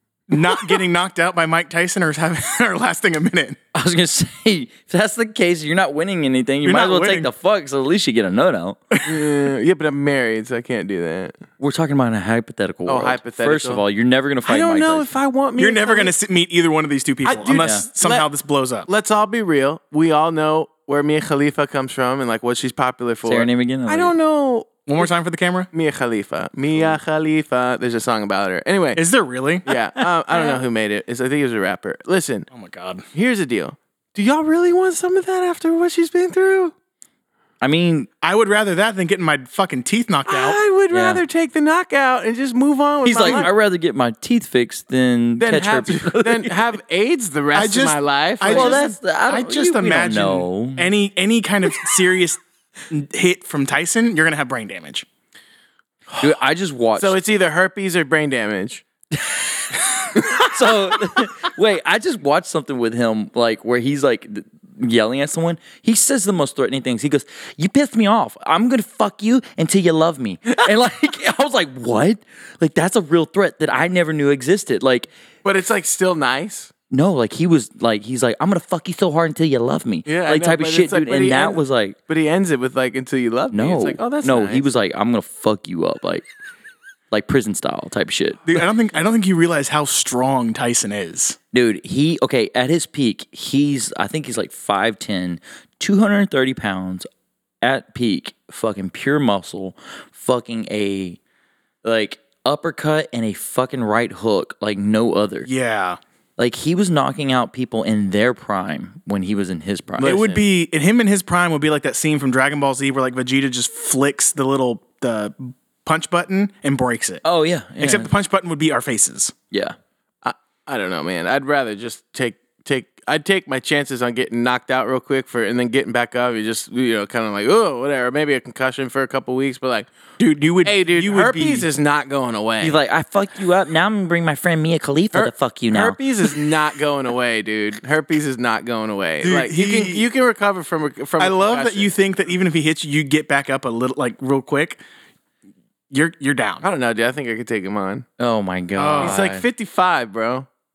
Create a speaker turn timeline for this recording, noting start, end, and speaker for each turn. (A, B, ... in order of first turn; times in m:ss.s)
0:00.3-0:03.6 A
0:03.7-0:08.8 B
0:06.6-0:07.3 A
0:08.9-0:09.2 A
0:09.0-0:11.4 C
0:11.6-0:15.1 B
0:12.9-0:13.8 C
0:14.5-0:16.1 C
0:15.6-0:18.9 A
0:17.2-0:18.3 C
0:17.6-0:17.9 B
0:18.9-0:25.1 C
0:23.2-0:24.1 B
0:24.9-0:25.7 A
0:25.7-0:29.0 C
0:29.0-0:29.7 A
0:29.6-0:32.5 C
0:32.5-0:33.0 A
0:33.1-0:36.7 C
0:37.6-0:38.1 B
0:38.2-0:40.6 A
0:40.3-0:43.5 C
0:40.9-0:41.2 B
0:43.0-0:46.6 B
0:45.4-0:49.0 C
0:47.5-0:55.1 A
0:48.5-0:50.8 B
0:56.1-0:56.4 C
0:56.2-0:57.2 B
0:57.0-0:58.8 C
0:59.1-1:15.1 B
1:15.4-1:16.7 C
1:16.9-1:22.0 B
1:20.1-1:24.7 C
1:23.5-1:26.2 B
1:27.1-1:28.4 B
1:28.5-1:31.4 A
1:31.5-1:37.1 B
1:37.6-1:41.2 B
1:41.8-1:45.5 B
1:45.5-1:46.0 A
1:46.4-1:50.4 B
1:50.0-1:57.2 A
1:50.0-1:50.4 C
1:57.2-1:58.1 B
1:57.8-1:59.3 A
1:59.5-1:59.8 B
2:00.2-2:10.1 C
2:10.2-2:11.7 A
2:10.6-2:12.8 C
2:12.6-2:16.0 B
2:15.1-2:21.9 C
2:19.2-2:20.1 A
2:21.2-2:24.8 A
2:25.9-2:26.6 A
2:26.6-2:28.1 C
2:28.2-2:29.5 B
2:28.8-2:29.2 A
2:29.0-2:30.5 C